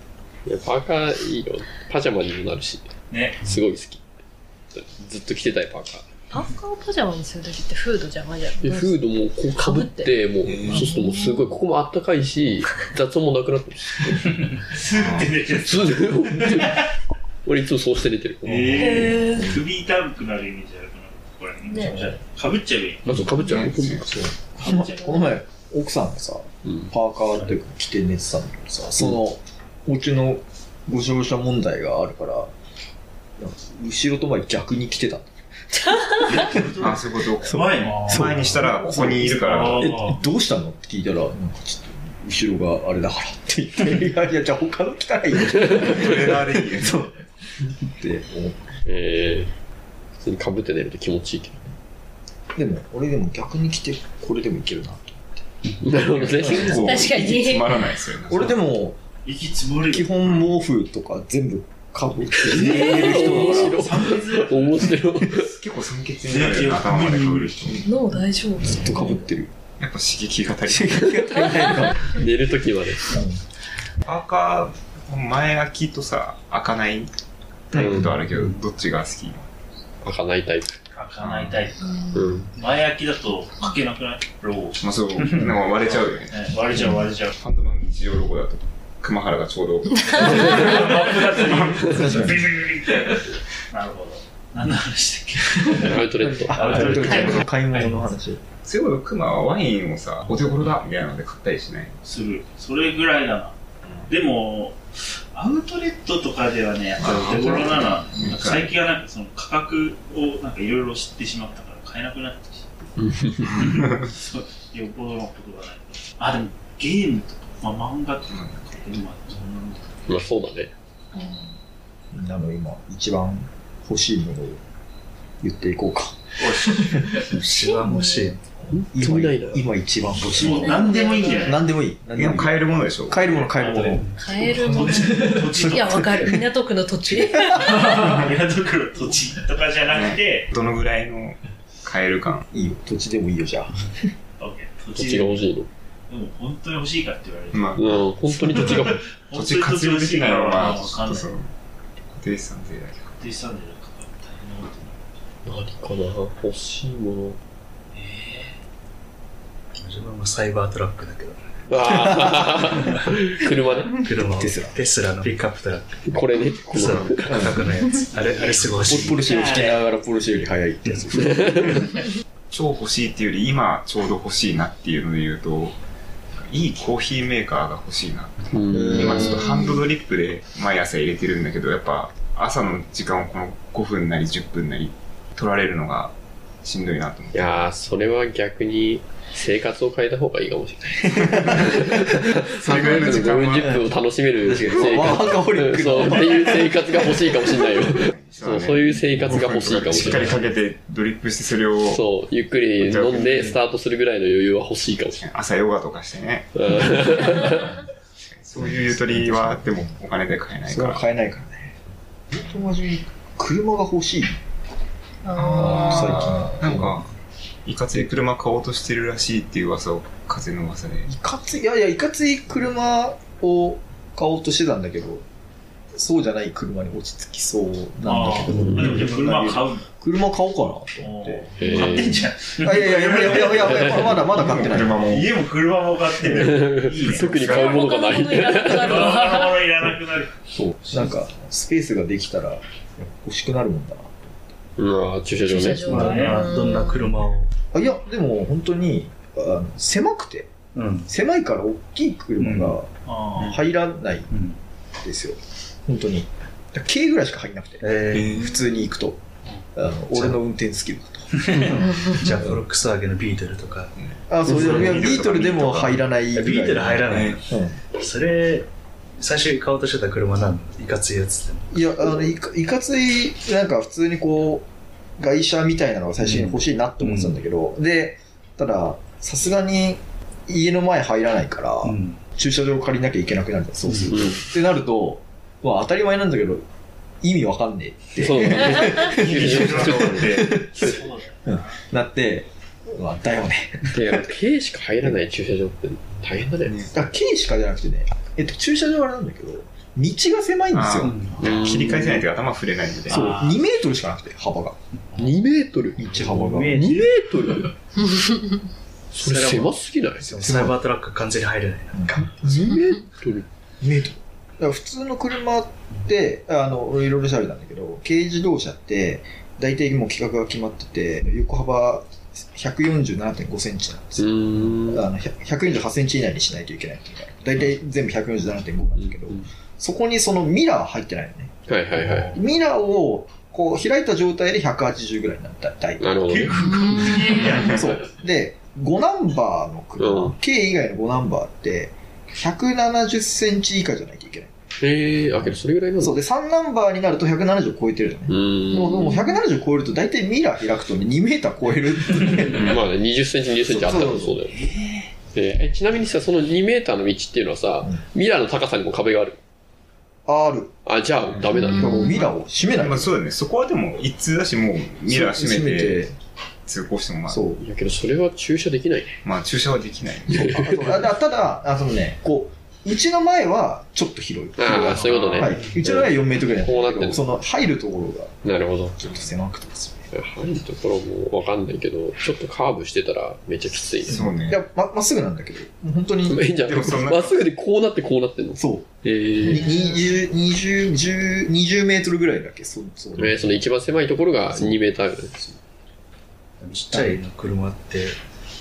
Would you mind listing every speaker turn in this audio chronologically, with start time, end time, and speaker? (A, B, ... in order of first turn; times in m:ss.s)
0:00.4-0:02.8 A
0:03.1-0:03.4 B
0:03.4-0:04.0 A
0:04.7-0:06.1 A
0:06.3-0:09.0 C
0:08.6-0:14.6 A
0:09.5-0:10.1 C
0:10.4-0:10.9 D
0:10.7-0:11.4 C
0:14.7-0:16.8 B
0:14.9-0:15.4 D
0:15.5-0:16.8 A
0:17.4-0:19.0 A
0:18.4-0:23.3 B
0:18.7-0:19.5 C
0:19.3-0:19.6 E
0:21.7-0:22.0 C
0:21.8-0:22.1 E
0:23.0-0:24.3 A
0:23.4-0:24.2 D
0:24.0-0:32.5 E
0:24.6-0:25.2 B
0:26.6-0:26.9 A
0:33.4-0:35.3 E
0:36.2-0:38.4 B
0:36.7-0:39.8 D
0:37.4-0:47.1 E
0:39.3-0:40.2 B
0:45.5-0:46.1 A
0:45.8-0:47.0 D
0:47.8-0:48.6 E
0:48.8-0:49.5 A
0:50.2-0:51.6 A
0:52.6-0:55.4 E
0:55.8-0:57.0 A
0:56.3-0:58.6 D
0:56.8-0:57.8 C
0:58.3-0:59.0 E
0:59.2-1:00.3 B
0:59.9-1:03.7 E
1:02.4-1:05.5 A
1:02.5-1:05.0 B
1:02.5-1:03.7 D
1:05.4-1:07.8 D
1:06.2-1:07.8 B
1:07.8-1:09.0 C
1:07.8-1:09.5 E
1:09.8-1:11.0 D
1:10.7-1:12.1 E
1:11.0-1:13.1 A
1:13.0-1:13.4 E
1:14.0-1:17.1 D
1:17.7-1:19.5 D
1:17.7-1:18.1 E
1:17.8-1:18.1 A
1:20.0-1:20.7 A
1:20.9-1:27.4 B
1:21.2-1:21.7 D
1:22.1-1:22.5 A
1:24.8-1:32.5 D
1:30.3-1:37.4 B
1:31.9-1:32.4 E
1:35.7-1:37.1 A
1:36.2-1:38.4 E
1:37.0-1:37.4 D
1:38.6-1:41.9 D
1:42.0-1:43.6 B
1:44.1-1:44.8 B
1:45.3-1:52.7 B
1:47.0-1:48.8 D
1:53.0-1:53.6 A
1:53.5-2:00.0 B
1:58.2-1:58.8 D
2:00.1-2:00.7 A
2:02.1-2:04.6 E
2:05.4-2:06.2 E
2:06.4-2:07.0 B
2:07.3-2:08.4 F
2:07.4-2:08.3 C
2:08.7-2:09.6 A
2:08.7-2:16.4 E
2:10.4-2:11.6 B
2:10.4-2:11.6 C
2:12.1-2:13.5 D
2:13.5-2:16.3 B
2:14.2-2:18.1 C
2:17.1-2:17.8 E
2:17.7-2:20.5 B
2:19.9-2:22.4 D
2:22.5-2:24.1 E
2:24.4-2:25.5 B
2:24.9-2:25.7 A
2:26.1-2:31.4 B
2:27.5-2:27.8 D
2:27.8-2:29.1 A
2:29.3-2:31.5 D
2:32.1-2:33.1 D
2:33.2-2:35.0 B
2:35.4-2:37.4 A
2:37.9-2:38.6 B
2:39.8-2:41.4 F
2:41.7-2:44.0 A
2:44.0-2:46.2 F
2:44.2-2:44.8 E
2:46.1-2:47.4 A
2:46.7-2:49.2 F
2:47.3-2:47.8 E
2:48.1-2:49.8 B
2:48.9-2:51.9 E
2:51.3-2:51.9 A
2:52.5-2:55.8 D
2:56.4-3:07.7 D
2:58.5-2:59.4 A
2:58.7-2:59.4 E
3:07.3-3:20.4 A
3:11.1-3:13.9 D
3:13.0-3:13.7 E
3:14.4-3:17.4 E
3:17.6-3:22.0 D
3:21.9-3:25.2 A
3:22.8-3:23.6 D
3:25.1-3:27.7 D
3:26.5-3:27.8 A
3:28.2-3:31.0 D
3:28.6-3:29.9 E
3:30.6-3:31.7 E
3:32.3-3:34.4 E
3:35.2-3:36.1 C
3:35.3-3:37.1 D
3:35.5-3:37.0 E
3:37.6-3:41.1 D
3:41.0-3:45.2 E
3:45.9-3:51.5 E
3:48.0-3:49.9 B
3:48.4-3:49.0 A
3:48.8-3:49.2 D
3:51.0-4:00.3 B
3:51.6-3:52.3 A
3:52.6-3:55.0 E
3:53.5-3:54.2 A
3:54.3-3:55.4 D
3:56.3-3:58.9 A
3:57.2-3:57.8 D
3:57.4-3:59.6 C
4:00.5-4:04.5 E
4:04.8-4:06.2 A
4:05.4-4:07.1 C
4:05.8-4:07.5 F
4:05.9-4:06.5 B
4:07.7-4:10.5 E
4:10.7-4:11.1 F
4:11.1-4:14.3 E
4:12.4-4:12.8 F
4:13.0-4:13.6 B
4:14.3-4:14.6 F
4:15.0-4:19.2 E
4:17.8-4:18.3 F
4:18.1-4:18.5 D
4:19.8-4:21.8 E
4:20.1-4:20.4 F
4:21.4-4:23.9 F
4:24.0-4:26.0 D
4:24.3-4:27.8 E
4:26.3-4:28.7 F
4:27.0-4:27.4 D
4:29.2-4:31.8 F
4:31.7-4:34.7 E
4:35.2-4:46.6 E
4:36.2-4:37.3 F
4:41.8-4:42.2 F
4:44.1-4:44.4 A
4:47.2-4:54.1 E
4:48.2-4:51.0 A
4:49.0-4:50.6 D
4:50.8-4:51.7 B
4:53.9-4:56.9 A
4:56.6-4:57.0 D
4:56.9-5:01.3 E
5:00.7-5:03.3 D
5:01.0-5:01.4 F
5:01.4-5:01.8 B
5:01.4-5:02.2 A
5:03.1-5:04.8 E
5:03.1-5:03.6 B
5:05.2-5:07.7 A
5:06.0-5:07.0 E
5:06.2-5:07.1 F
5:09.1-5:10.4 A
5:09.2-5:12.2 F
5:10.4-5:10.8 E
5:12.0-5:13.0 E
5:13.1-5:13.4 A
5:13.8-5:36.0 E
5:24.2-5:25.0 A
5:29.0-5:29.4 A
5:31.7-5:32.4 A
5:36.0-5:36.6 A
5:36.2-5:38.0 B
5:36.5-5:37.6 C
5:37.1-5:44.5 E
5:37.1-5:37.6 D
5:40.0-5:40.3 A
5:44.8-5:46.2 A
5:46.0-5:52.7 E
5:48.3-5:49.2 A
5:48.9-5:49.4 C
5:52.6-5:54.6 A
5:53.6-5:54.4 E
5:54.5-5:55.1 B
5:55.3-5:59.4 A
6:00.2-6:00.7 E
6:00.8-6:02.1 A
6:01.3-6:01.7 D
6:01.5-6:02.2 C
6:01.6-6:03.2 E
6:02.7-6:06.1 D
6:05.1-6:06.1 E
6:06.6-6:07.4 D
6:07.3-6:07.6 E
6:07.5-6:09.2 A
6:09.2-6:10.8 D
6:10.3-6:11.1 A
6:10.3-6:18.3 E
6:14.6-6:17.2 A
6:15.0-6:15.8 D
6:18.4-6:19.0 A
6:19.0-6:20.0 E
6:19.0-6:19.3 D
6:20.1-6:24.5 A
6:24.1-6:24.6 D
6:24.1-6:26.4 E
6:26.2-6:29.8 A
6:26.6-6:27.5 D
6:28.6-6:28.9 E
6:29.4-6:33.5 E
6:29.5-6:29.9 C
6:33.2-6:35.6 A
6:36.6-6:38.2 F
6:36.9-6:37.2 E